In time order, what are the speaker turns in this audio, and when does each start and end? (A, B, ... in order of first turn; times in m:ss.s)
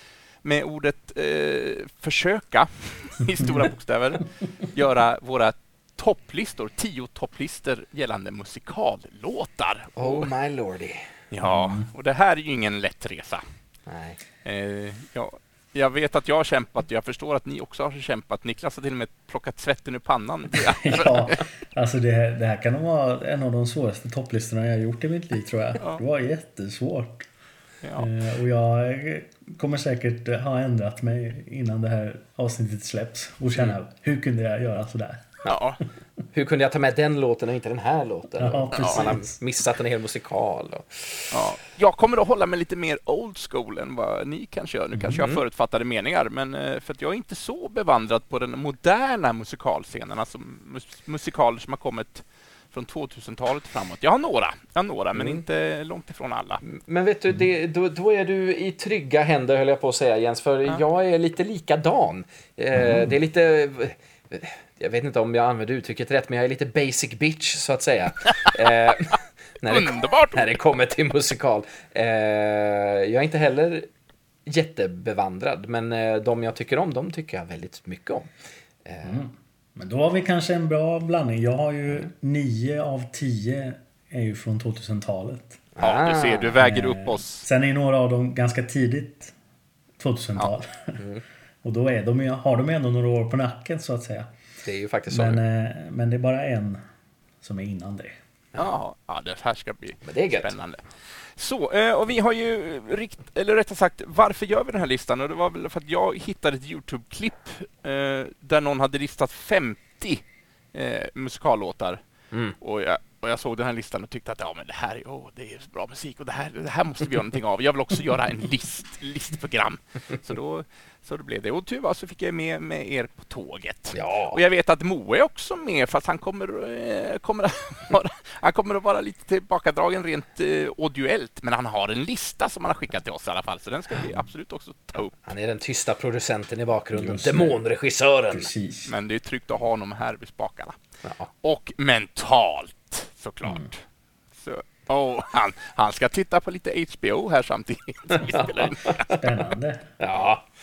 0:00.4-0:10.3 A
0:10.0-0:11.1 B
0:11.3-0:13.4 A
0:11.4-0:11.9 C
0:13.9-0:14.2 B
0:14.4-0:21.4 A
0:20.6-0:27.3 C
0:27.8-0:28.1 A
0:28.0-0:35.4 C
0:35.4-0:35.8 A
0:36.3-0:41.4 B
0:38.4-0:39.4 C
0:38.8-0:39.1 A
0:41.3-0:56.6 A
0:44.9-0:45.2 C
0:55.2-0:55.4 B
0:56.6-1:13.9 B
1:02.7-1:03.1 C
1:09.7-1:10.6 A
1:14.4-1:18.3 B
1:18.8-1:19.2 B
1:19.0-1:25.6 C
1:25.8-1:26.6 B
1:25.8-1:27.4 A
1:26.6-1:29.3 C
1:30.0-1:31.0 C
1:31.0-1:31.2 B
1:31.6-1:34.3 C
1:34.6-1:35.4 B
1:35.1-1:36.8 C
1:37.4-1:38.2 C
1:38.6-1:40.8 A
1:40.0-1:40.5 B
1:41.3-1:52.0 A
1:52.6-2:15.2 A
2:03.9-2:04.4 B
2:15.2-2:18.5 B
2:16.9-2:17.6 C
2:18.3-2:18.9 C
2:18.9-2:20.8 A
2:21.4-2:23.8 A
2:24.4-2:29.2 A
2:28.1-2:29.2 B
2:29.1-2:29.9 C
2:30.0-2:30.4 B